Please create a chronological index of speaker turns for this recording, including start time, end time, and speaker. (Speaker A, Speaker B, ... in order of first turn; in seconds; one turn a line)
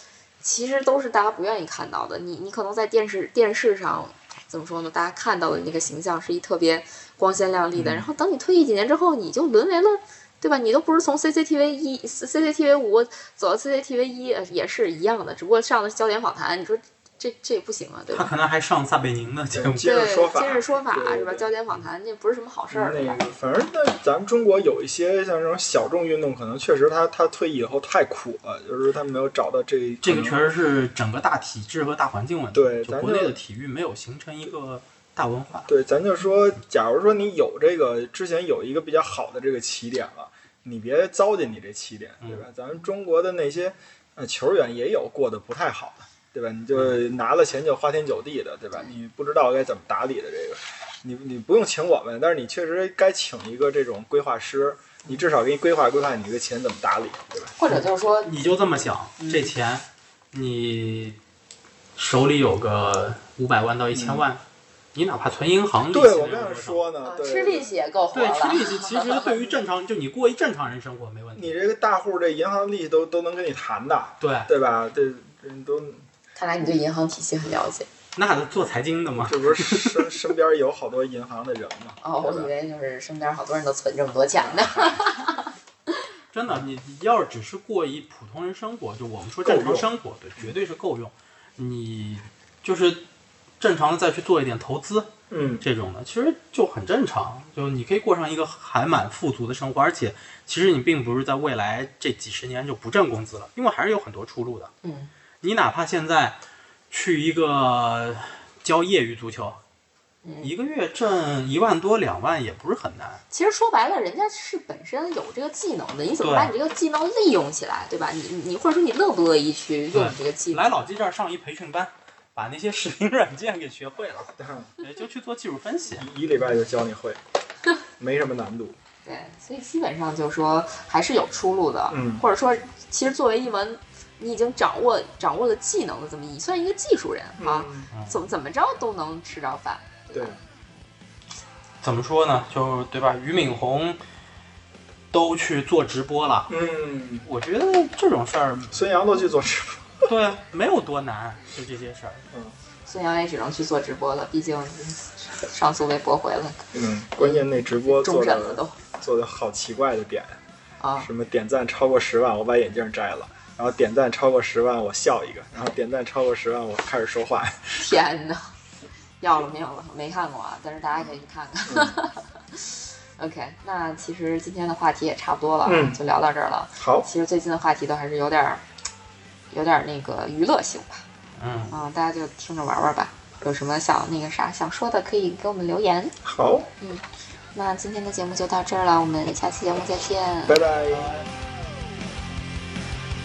Speaker A: 0.4-18.3
Speaker B: 7.7-8.1
Speaker C: 18.1-19.9
Speaker B: 19.5-21.5
Speaker A: 19.8-23.2
Speaker B: 22.7-30.4
Speaker C: 30.0-35.7
Speaker B: 32.5-33.4
Speaker B: 35.7-57.5
Speaker A: 57.6-58.3
Speaker C: 57.7-61.2
Speaker A: 59.2-59.5
Speaker C: 62.0-64.4
Speaker B: 63.9-64.2
Speaker C: 65.0-66.8
Speaker B: 65.9-67.7
Speaker A: 67.0-69.6
Speaker C: 68.1-71.5
Speaker B: 71.4-76.1
Speaker C: 74.2-74.5
Speaker A: 76.3-77.9
Speaker C: 78.2-80.1
Speaker B: 79.2-82.5
Speaker A: 82.0-85.5
Speaker C: 86.3-93.0
Speaker B: 89.5-89.9
Speaker C: 93.6-104.7
Speaker B: 95.3-95.6
Speaker A: 104.8-105.1
Speaker C: 105.4-106.4
Speaker C: 106.9-109.6
Speaker A: 110.2-110.5
Speaker C: 110.4-113.2
Speaker A: 113.3-120.8
Speaker C: 116.2-116.5
Speaker C: 119.9-126.1
Speaker B: 124.4-124.7
Speaker B: 126.0-127.2
Speaker B: 128.0-128.8
Speaker A: 129.1-140.4
Speaker B: 131.9-132.2
Speaker B: 137.4-137.9
Speaker C: 137.9-138.2
Speaker C: 141.8-144.0
Speaker C: 145.1-146.5
Speaker B: 146.5-147.3
Speaker C: 147.2-148.8
Speaker B: 148.7-150.1
Speaker C: 150.1-152.3
Speaker A: 152.9-158.8
Speaker B: 156.7-160.4
Speaker A: 160.8-161.1
Speaker B: 161.0-167.8
Speaker A: 167.8-168.5
Speaker A: 169.2-178.6
Speaker B: 171.7-171.9
Speaker B: 175.7-176.0
Speaker B: 176.8-177.1
Speaker A: 179.5-181.1
Speaker C: 181.4-181.7
Speaker A: 181.7-186.2
Speaker B: 186.2-186.7
Speaker A: 186.8-190.6
Speaker B: 190.5-191.2